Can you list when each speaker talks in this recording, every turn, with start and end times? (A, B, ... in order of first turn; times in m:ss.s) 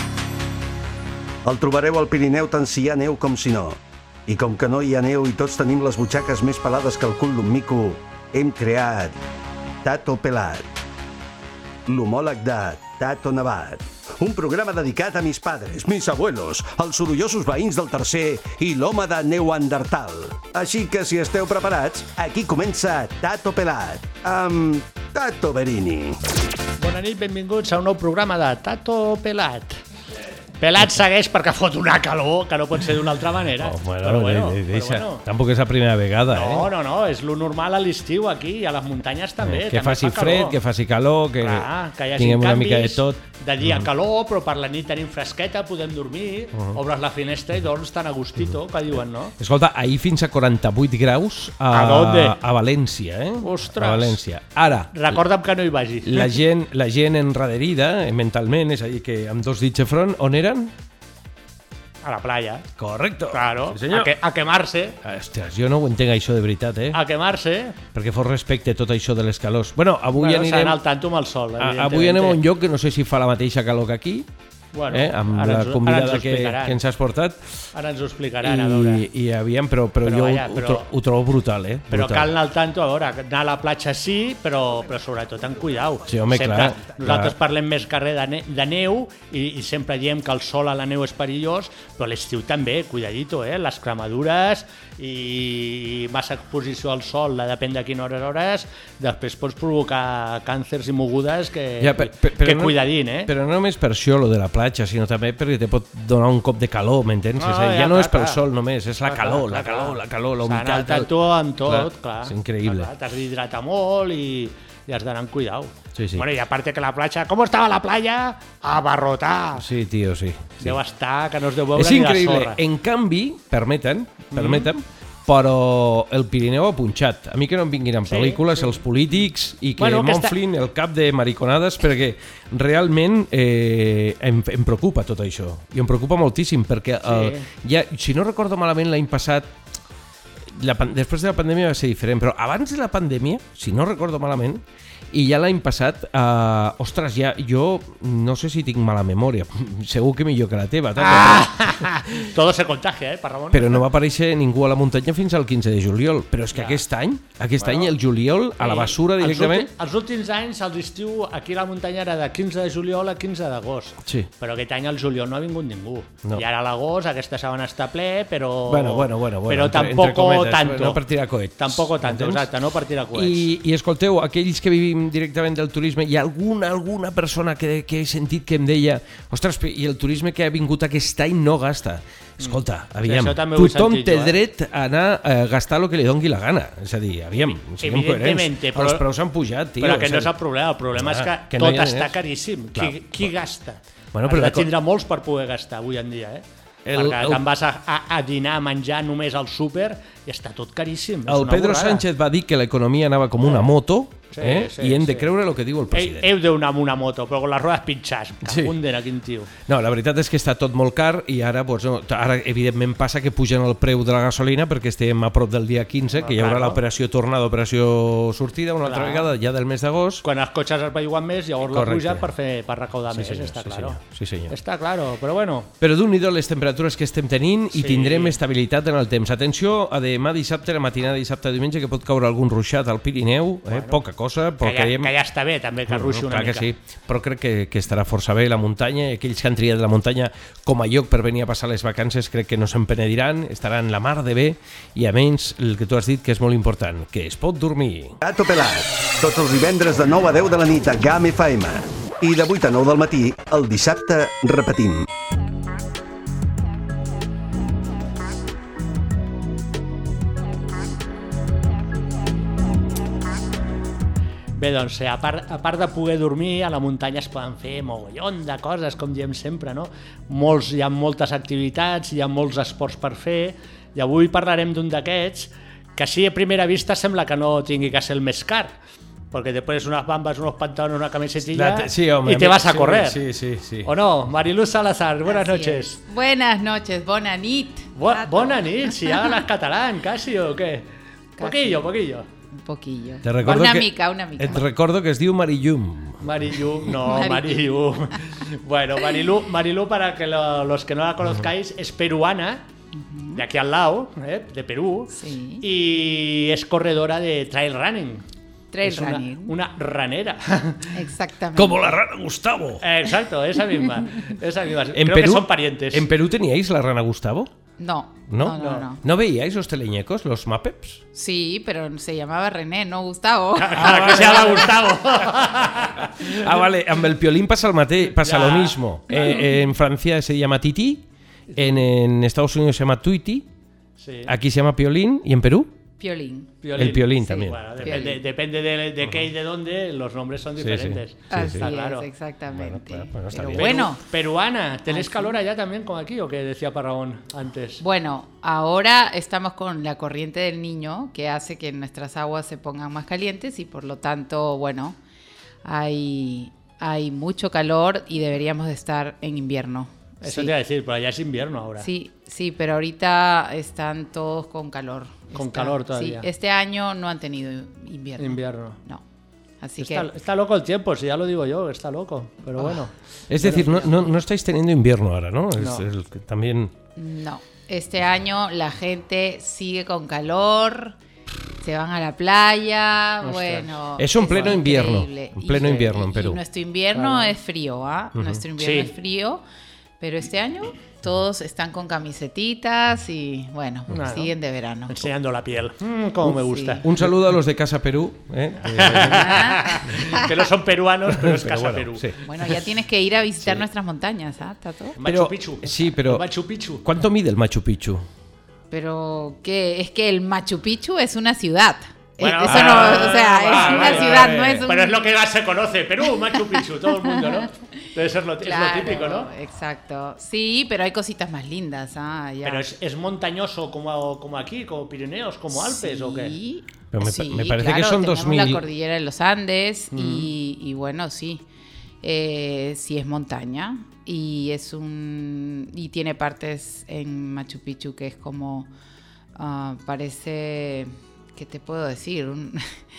0:01.4-0:09.2 A
0:09.8-0:10.6 A
0:11.8-0:26.2 A
0:26.8-0:29.8 B
0:30.6-0:35.2 B
0:33.6-0:36.7 C
0:36.3-0:40.6 B
0:39.4-0:43.8 C
0:41.4-0:49.3 B
0:49.4-0:55.2 C
0:51.7-0:52.4 B
0:53.4-0:54.2 B
0:54.9-0:56.4 B
0:56.0-1:00.7 C
1:02.0-1:02.7 B
1:02.8-1:04.1 C
1:03.3-1:05.0 B
1:05.0-1:07.0 C
1:06.9-1:07.8 B
1:07.9-1:10.8 C
1:10.2-1:12.4 B
1:11.6-1:14.2 C
1:14.7-1:16.8 B
1:14.9-1:17.4 C
1:17.7-1:19.0 B
1:18.4-1:22.3 C
1:20.0-1:20.9 B
1:21.9-1:43.3 B
1:26.1-1:27.3 C
1:41.8-1:51.1 C
1:47.4-1:48.4 B
1:49.0-1:59.7 B
1:51.6-1:52.9 C
1:56.0-1:56.2 C
1:59.6-2:00.8 C
2:00.6-2:02.6 B
2:01.8-2:19.5 C
2:04.3-2:04.7 B
2:08.0-2:08.8 B
2:09.8-2:10.4 B
2:17.0-2:17.4 B
2:20.5-2:31.9 C
2:31.0-2:33.8 B
2:33.5-2:39.7 C
2:36.5-2:36.8 B
2:37.6-2:37.9 B
2:38.6-2:51.0 B
2:48.7-2:52.4 C
2:51.6-2:53.5 B
2:53.1-3:10.3 C
3:02.4-3:04.4 B
3:07.4-3:09.0 B
3:09.8-3:22.0 B
3:10.9-3:12.1 C
3:12.7-3:13.2 C
3:14.1-3:14.7 C
3:16.8-3:17.4 C
3:21.3-3:26.3 C
3:23.4-3:23.7 B
3:24.3-3:25.3 B
3:25.9-3:29.5 B
3:28.4-3:28.7 C
3:29.7-3:40.2 C
3:36.1-3:36.8 B
3:38.8-3:39.3 B
3:40.2-3:45.7 B
3:41.6-3:42.3 C
3:43.1-3:44.5 C
3:45.8-3:55.1 C
3:47.7-3:48.4 B
3:53.7-3:54.0 B
3:54.6-3:56.7 B
3:55.9-4:08.2 C
4:08.2-4:15.1 A
4:24.6-4:38.7 B
4:39.3-4:43.2 B
4:41.5-4:43.9 C
4:43.8-4:46.0 B
4:45.2-4:49.3 D
4:48.0-4:50.9 B
4:51.4-4:51.8 D
4:51.4-4:52.2 B
4:52.5-4:54.6 D
4:53.2-4:56.2 C
4:56.2-5:02.6 B
4:57.0-4:57.6 D
5:02.9-5:03.4 D
5:03.3-5:08.2 B
5:05.1-5:05.6 D
5:08.7-5:09.5 D
5:08.8-5:11.0 B
5:10.9-5:12.0 D
5:11.5-5:12.8 C
5:12.8-5:16.1 B
5:14.9-5:17.5 C
5:17.8-5:19.0 D
5:18.3-5:21.0 C
5:18.5-5:18.8 B
5:21.1-5:24.7 D
5:23.6-5:26.6 B
5:23.8-5:24.7 C
5:26.0-5:31.0 C
5:28.2-5:29.5 B
5:29.1-5:29.4 D
5:31.5-5:31.8 B
5:31.6-5:33.4 C
5:34.0-5:34.3 B
5:34.2-5:35.7 C
5:36.0-5:36.5 D
5:36.6-5:42.1 B
5:36.8-5:38.0 C
5:37.1-5:38.2 D
5:40.6-5:41.7 C
5:41.3-5:44.0 D
5:42.5-5:43.8 C
5:43.6-5:47.8 B
5:44.9-5:45.4 D
5:47.8-5:55.0 D
5:55.6-6:00.5 D
6:00.2-6:01.9 B
6:01.8-6:09.0 D
6:05.3-6:06.3 B
6:08.2-6:08.8 B
6:09.6-6:10.1 D
6:09.8-6:14.0 B
6:13.3-6:16.7 C
6:15.6-6:15.8 B
6:17.0-6:20.9 D
6:21.6-6:29.4 D
6:23.2-6:23.8 B
6:24.0-6:26.4 C
6:26.9-6:27.3 B
6:28.2-6:28.4 C
6:28.6-6:28.9 B
6:30.0-6:35.0 D
6:33.9-6:34.3 B
6:34.9-6:37.1 B
6:36.2-6:36.8 D
6:36.8-6:40.2 C
6:38.6-6:42.2 B
6:39.0-6:40.3 D
6:41.2-6:42.2 C
6:42.2-6:45.0 D
6:45.0-6:46.8 B
6:45.0-6:46.2 C
6:46.8-6:48.1 C
6:48.7-6:55.1 D
6:52.2-6:59.3 B
6:56.3-6:57.5 D
6:58.4-7:02.7 D
7:02.4-7:06.4 B
7:05.5-7:11.4 D
7:06.9-7:08.6 C
7:09.9-7:10.3 B
7:12.0-7:18.7 D
7:19.4-7:22.6 D